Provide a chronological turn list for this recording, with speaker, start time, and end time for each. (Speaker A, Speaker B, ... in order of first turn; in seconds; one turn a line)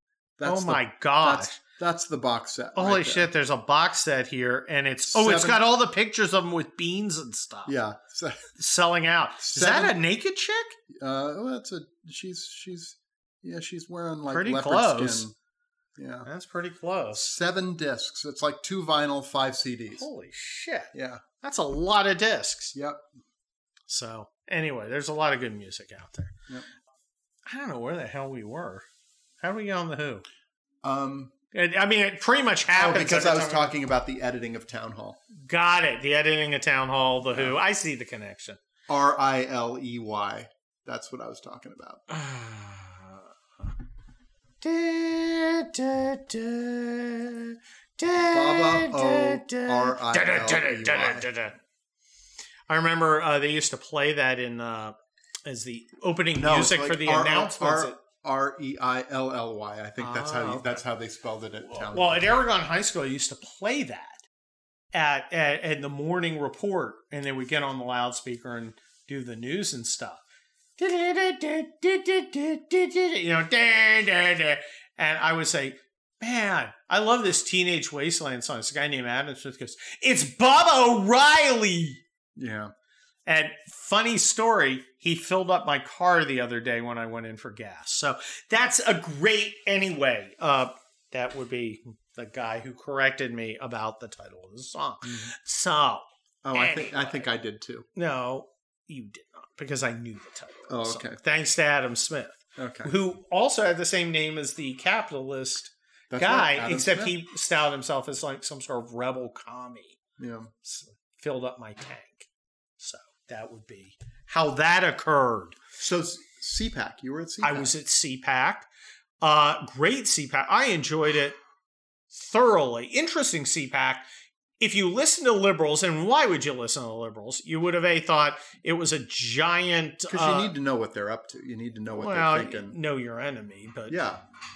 Speaker A: 0.4-3.3
Speaker B: 0.4-1.6
Speaker B: 2.8-7.8
Speaker A: 5.1-5.6
Speaker A: 7.7-8.4
Speaker B: 8.6-10.8
Speaker A: 9.4-10.0
Speaker A: 10.9-15.3
Speaker B: 14.3-15.3
Speaker A: 16.0-16.3
Speaker B: 16.2-17.4
Speaker A: 17.2-20.1
Speaker B: 19.9-22.8
Speaker A: 20.9-21.2
Speaker A: 22.7-23.0
Speaker B: 23.9-26.3
Speaker B: 27.5-28.9
Speaker B: 29.4-30.2
Speaker A: 30.8-31.3
Speaker B: 31.5-33.7
Speaker A: 32.7-35.2
Speaker B: 35.4-38.6
Speaker A: 37.3-37.6
Speaker A: 38.9-42.0
Speaker B: 42.1-43.3
Speaker B: 44.6-51.6
Speaker A: 48.3-51.3
Speaker B: 52.7-55.0
Speaker B: 55.5-58.0
Speaker A: 56.4-62.2
Speaker B: 60.0-60.8
Speaker B: 61.6-64.2
Speaker B: 64.9-70.2
Speaker B: 70.8-82.0
Speaker A: 82.4-82.7
Speaker B: 83.3-97.3
Speaker A: 95.0-95.3
Speaker A: 96.4-97.9
Speaker B: 98.0-110.0
Speaker A: 100.7-101.2
Speaker A: 102.6-102.9
Speaker A: 106.1-107.2
Speaker A: 110.2-110.5
Speaker B: 110.7-112.3
Speaker B: 112.8-115.6
Speaker A: 115.8-117.7
Speaker B: 117.4-118.7
Speaker B: 119.2-121.4
Speaker B: 122.1-124.0
Speaker B: 124.6-130.5
Speaker A: 130.1-132.8
Speaker B: 131.9-134.0
Speaker A: 133.9-134.2